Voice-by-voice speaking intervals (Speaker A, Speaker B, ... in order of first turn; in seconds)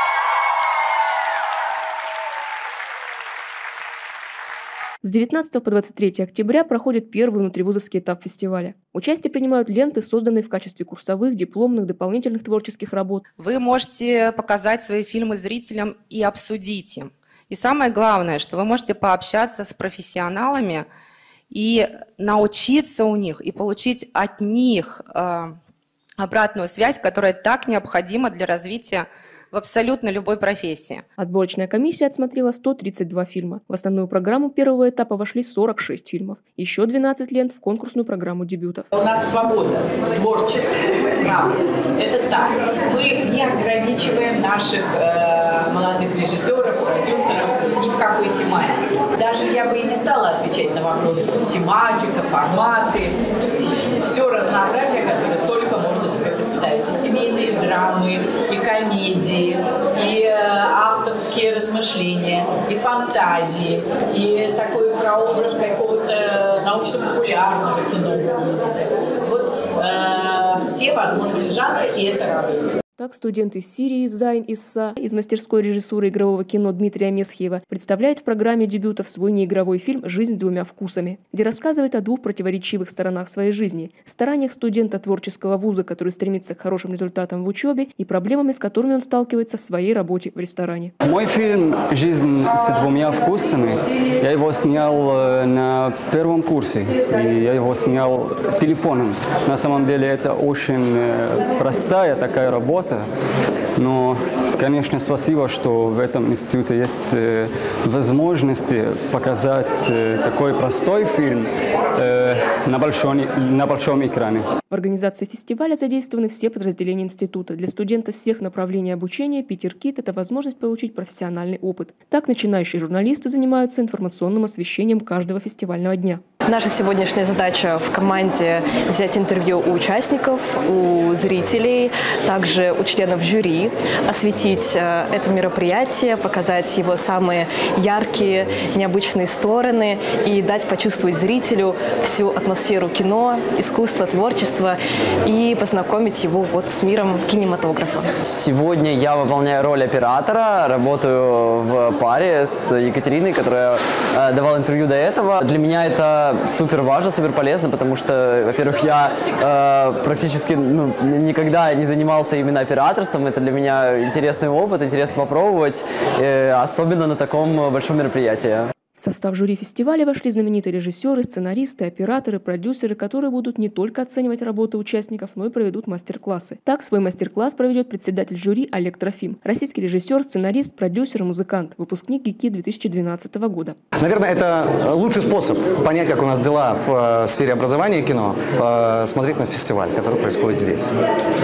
Speaker A: 5.0-13.2, 31.2-38.9, 73.0-90.9, 114.7-126.2, 169.0-183.8
Speaker B: 13.4-20.9, 21.5-25.6, 26.2-31.0
Speaker C: 38.9-53.2, 54.0-72.7
Speaker D: 91.0-103.0, 103.8-114.5
Speaker E: 126.5-148.1
Speaker F: 148.2-168.7
Speaker G: 184.0-190.9